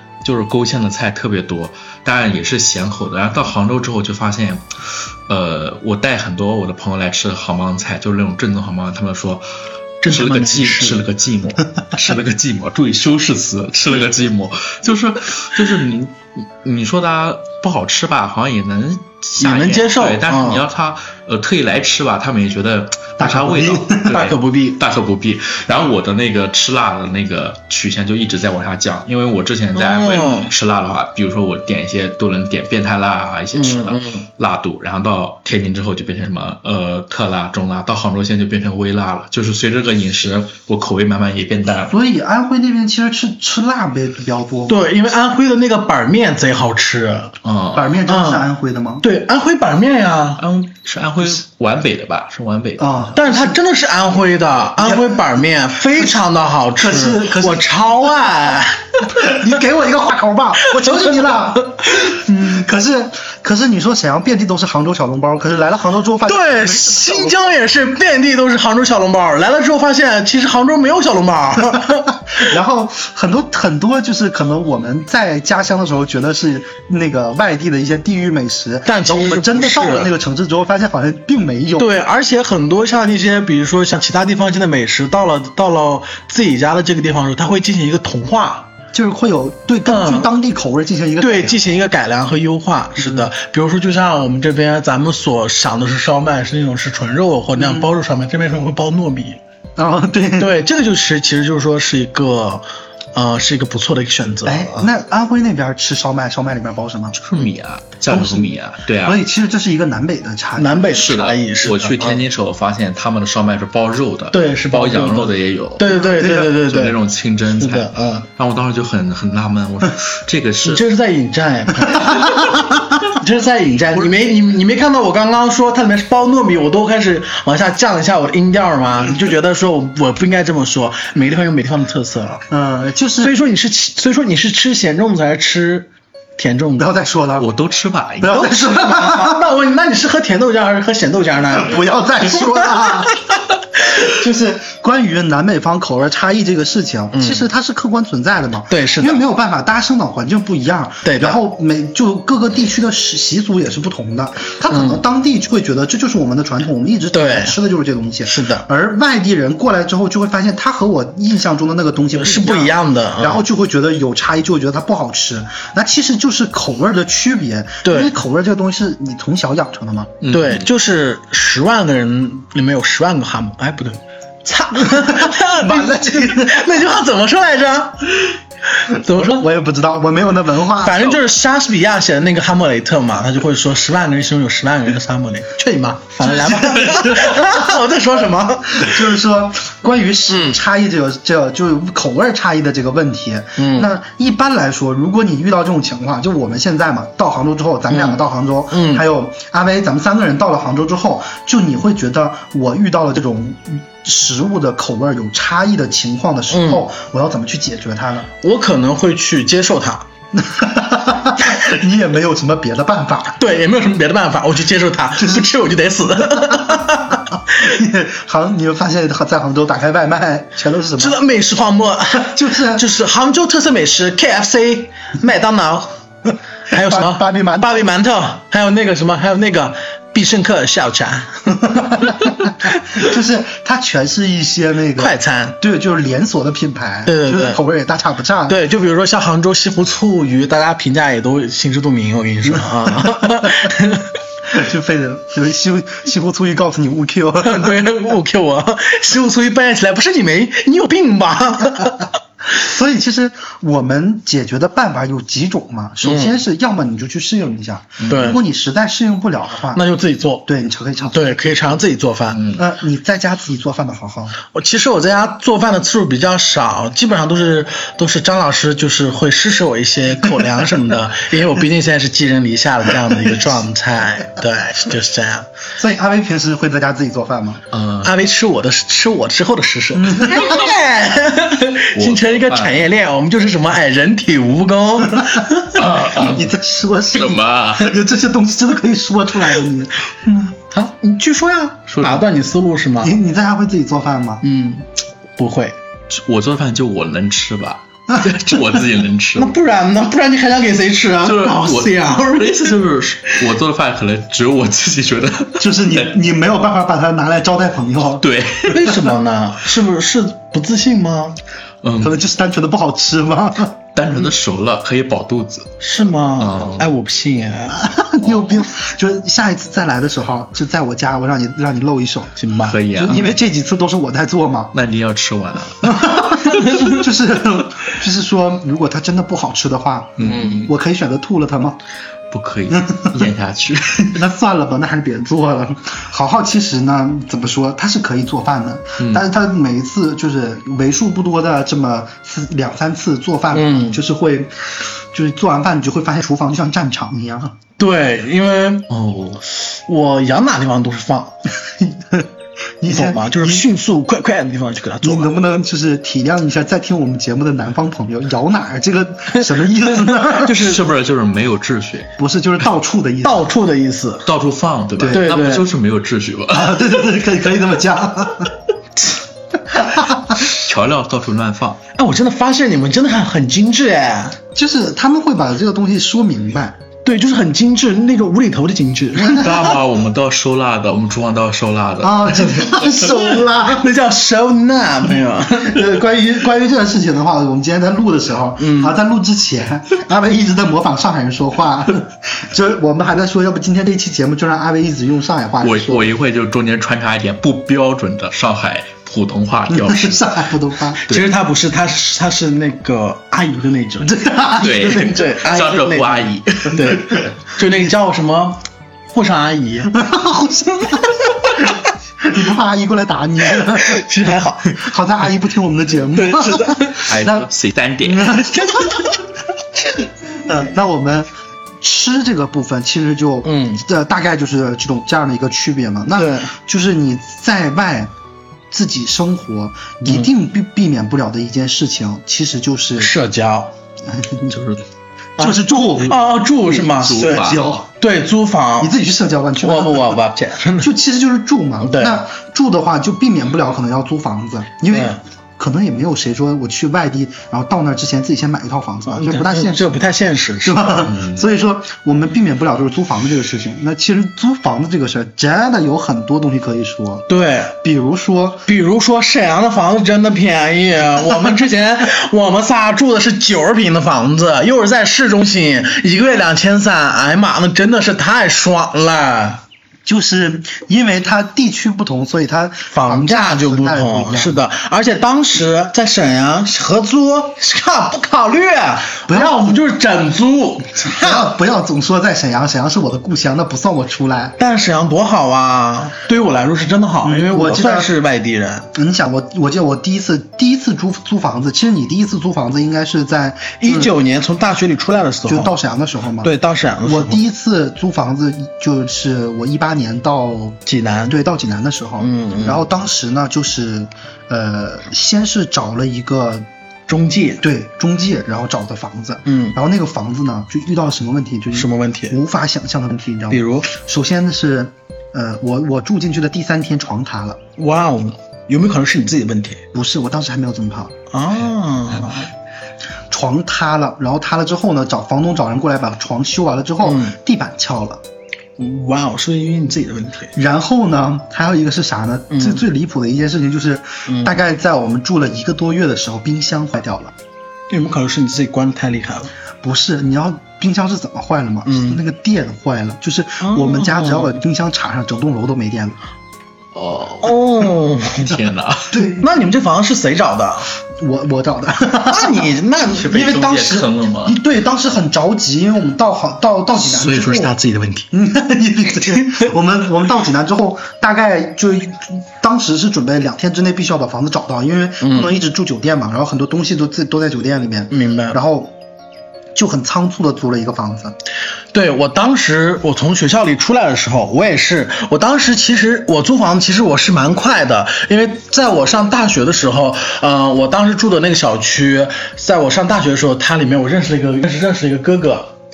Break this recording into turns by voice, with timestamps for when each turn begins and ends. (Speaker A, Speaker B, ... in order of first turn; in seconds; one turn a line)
Speaker A: 0.2-4.8
Speaker A: 5.3-9.4
Speaker B: 10.0-11.1
Speaker A: 10.0-42.0
Speaker B: 19.4-20.6
Speaker C: 23.2-24.1
Speaker B: 24.1-24.8
Speaker B: 29.8-30.5
Speaker B: 33.5-34.2
Speaker C: 41.9-44.8
Speaker B: 44.7-47.3
Speaker A: 47.4-48.0
Speaker C: 47.7-49.0
Speaker B: 48.1-48.5
Speaker B: 49.0-50.4
Speaker A: 50.4-53.1
Speaker C: 52.8-53.6
Speaker B: 53.1-59.5
Speaker C: 54.8-55.4
Speaker C: 56.8-57.7
Speaker C: 59.1-67.3
Speaker B: 60.7-61.4
Speaker B: 66.3-72.1
Speaker C: 72.3-81.9
Speaker B: 78.9-80.1
Speaker B: 81.8-88.7
Speaker C: 88.9-91.6
Speaker B: 89.9-90.3
Speaker B: 91.2-99.4
Speaker C: 93.0-93.3
Speaker C: 97.6-97.9
Speaker C: 99.8-100.6
Speaker B: 100.4-104.9
Speaker C: 104.5-107.2
Speaker A: 107.2-109.2
Speaker C: 108.1-110.8
Speaker B: 110.6-112.2
Speaker A: 110.9-120.8
Speaker B: 114.3-117.0
Speaker C: 115.9-116.5
Speaker B: 117.6-118.3
Speaker B: 120.7-132.4
Speaker C: 132.5-133.3
Speaker B: 133.2-136.9
Speaker C: 136.8-137.5
Speaker A: 137.4-138.5
Speaker C: 138.2-139.4
Speaker B: 138.3-143.4
Speaker C: 141.5-143.3
Speaker C: 143.9-170.1
Speaker B: 147.1-147.5
Speaker B: 148.7-149.2
Speaker B: 151.0-151.4
Speaker B: 154.7-155.0
Speaker B: 157.1-157.5
Speaker B: 158.3-158.7
Speaker B: 162.2-163.4
Speaker B: 167.8-168.1
Speaker A: 170.2-170.7
Speaker B: 170.3-179.5
Speaker C: 174.8-176.7
Speaker C: 178.9-181.2
Speaker B: 180.8-189.2
Speaker C: 186.2-187.8
Speaker C: 188.7-208.3
Speaker B: 190.3-190.6
Speaker B: 193.6-193.9
Speaker B: 197.9-198.2
Speaker B: 198.7-199.0
Speaker B: 206.5-206.8
Speaker B: 208.4-210.1
Speaker C: 210.3-213.4
Speaker B: 213.4-217.3
Speaker C: 215.2-215.5
Speaker C: 217.5-221.2
Speaker B: 221.0-225.9
Speaker C: 222.1-222.8
Speaker B: 226.7-231.3
Speaker C: 226.7-227.9
Speaker C: 231.6-238.6
Speaker B: 235.0-235.6
Speaker B: 237.1-237.6
Speaker B: 238.5-244.1
Speaker C: 242.9-243.7
Speaker C: 244.5-248.0
Speaker B: 247.4-252.1
Speaker C: 252.5-259.8
Speaker B: 256.0-256.4
Speaker A: 258.0-258.4
Speaker B: 258.1-258.4
Speaker B: 259.7-260.5
Speaker C: 260.5-261.3
Speaker B: 261.1-262.4
Speaker A: 262.3-262.6
Speaker C: 262.6-264.4
Speaker B: 264.5-275.5
Speaker C: 275.8-277.6
Speaker A: 277.7-278.1
Speaker B: 278.0-285.8
Speaker C: 279.9-280.7
Speaker A: 281.9-282.8
Speaker C: 285.2-285.5
Speaker A: 285.8-286.5
Speaker C: 286.0-290.6
Speaker A: 287.1-287.9
Speaker B: 290.7-293.1
Speaker A: 291.9-292.2
Speaker C: 293.0-294.4
Speaker B: 294.4-295.8
Speaker A: 296.1-299.5
Speaker B: 299.4-302.9
Speaker A: 301.2-306.1
Speaker C: 305.6-308.2
Speaker A: 308.2-309.0
Speaker B: 308.7-311.4
Speaker A: 311.8-312.1
Speaker C: 312.0-313.8
Speaker A: 313.9-315.7
Speaker B: 315.8-317.9
Speaker A: 316.4-316.9
Speaker C: 317.8-322.4
Speaker B: 322.4-322.8
Speaker A: 322.6-323.4
Speaker C: 322.9-324.7
Speaker A: 324.7-326.1
Speaker C: 325.8-331.8
Speaker A: 330.2-330.7
Speaker B: 330.2-330.7
Speaker A: 332.3-334.2
Speaker C: 332.7-333.3
Speaker C: 334.0-347.6
Speaker B: 343.5-344.0
Speaker B: 347.8-348.9
Speaker A: 348.9-349.4
Speaker B: 349.6-351.4
Speaker C: 351.8-352.3
Speaker C: 352.8-353.6
Speaker B: 352.9-355.3
Speaker C: 355.0-360.6
Speaker A: 360.4-362.1
Speaker B: 360.4-360.8
Speaker C: 362.2-363.5
Speaker B: 363.2-364.3
Speaker A: 364.2-366.9
Speaker C: 365.0-365.2
Speaker B: 365.1-365.7
Speaker C: 366.5-368.5
Speaker C: 369.7-370.4
Speaker A: 370.4-371.8
Speaker B: 371.9-374.4
Speaker C: 374.6-376.8
Speaker B: 377.0-379.7
Speaker C: 379.2-379.7
Speaker A: 379.2-383.1
Speaker C: 382.0-383.9
Speaker B: 383.5-386.0
Speaker C: 385.5-396.1
Speaker B: 388.6-388.9
Speaker A: 395.6-400.5
Speaker C: 399.7-401.0
Speaker A: 401.0-401.3
Speaker B: 401.1-404.1
Speaker C: 404.0-405.3
Speaker A: 404.6-407.3
Speaker B: 404.8-409.9
Speaker C: 409.9-414.1
Speaker B: 413.7-414.8
Speaker C: 414.7-417.5
Speaker B: 416.1-417.0
Speaker A: 417.1-418.5
Speaker C: 418.0-419.1
Speaker C: 420.3-421.3
Speaker C: 421.8-428.1
Speaker B: 423.4-423.8
Speaker B: 426.1-426.5
Speaker C: 428.7-433.1
Speaker B: 433.0-433.7
Speaker C: 434.1-434.6
Speaker A: 434.5-434.8
Speaker C: 435.4-437.9
Speaker B: 435.4-438.9
Speaker A: 436.9-437.7
Speaker C: 438.8-440.2
Speaker B: 439.6-440.9
Speaker C: 440.8-450.0
Speaker B: 441.8-442.2
Speaker B: 444.9-445.2
Speaker B: 449.1-451.0
Speaker C: 450.6-457.3
Speaker A: 451.1-451.4
Speaker B: 457.3-457.8
Speaker C: 457.8-458.7
Speaker B: 458.7-469.6
Speaker C: 470.1-474.6
Speaker B: 472.9-481.5
Speaker C: 479.3-479.6
Speaker C: 481.1-484.6
Speaker B: 484.6-488.9
Speaker C: 487.2-488.1
Speaker C: 488.9-494.1
Speaker B: 493.8-495.7
Speaker C: 495.5-496.5
Speaker B: 496.4-497.4
Speaker C: 497.0-506.7
Speaker B: 500.9-501.3
Speaker B: 502.2-502.9
Speaker B: 507.1-507.6
Speaker C: 507.6-517.6
Speaker B: 509.5-509.8
Speaker B: 511.7-512.4
Speaker B: 513.5-513.9
Speaker B: 517.8-519.8
Speaker C: 519.9-521.1
Speaker B: 521.3-522.5
Speaker C: 523.3-528.2
Speaker B: 527.0-527.3
Speaker B: 528.8-530.5
Speaker C: 530.5-537.3
Speaker B: 532.5-532.8
Speaker B: 534.3-534.5
Speaker B: 537.9-539.5
Speaker C: 539.8-546.2
Speaker B: 541.9-542.2
Speaker B: 543.6-544.6
Speaker A: 546.9-547.6
Speaker B: 547.4-548.6
Speaker A: 548.2-549.2
Speaker C: 549.1-549.4
Speaker B: 549.4-550.9
Speaker C: 551.2-557.7
Speaker B: 552.3-553.5
Speaker A: 553.1-554.6
Speaker A: 557.2-558.2
Speaker B: 557.3-558.2
Speaker C: 558.3-568.9
Speaker B: 565.2-565.5
Speaker B: 568.1-568.6
Speaker C: 569.8-571.4
Speaker B: 571.9-585.7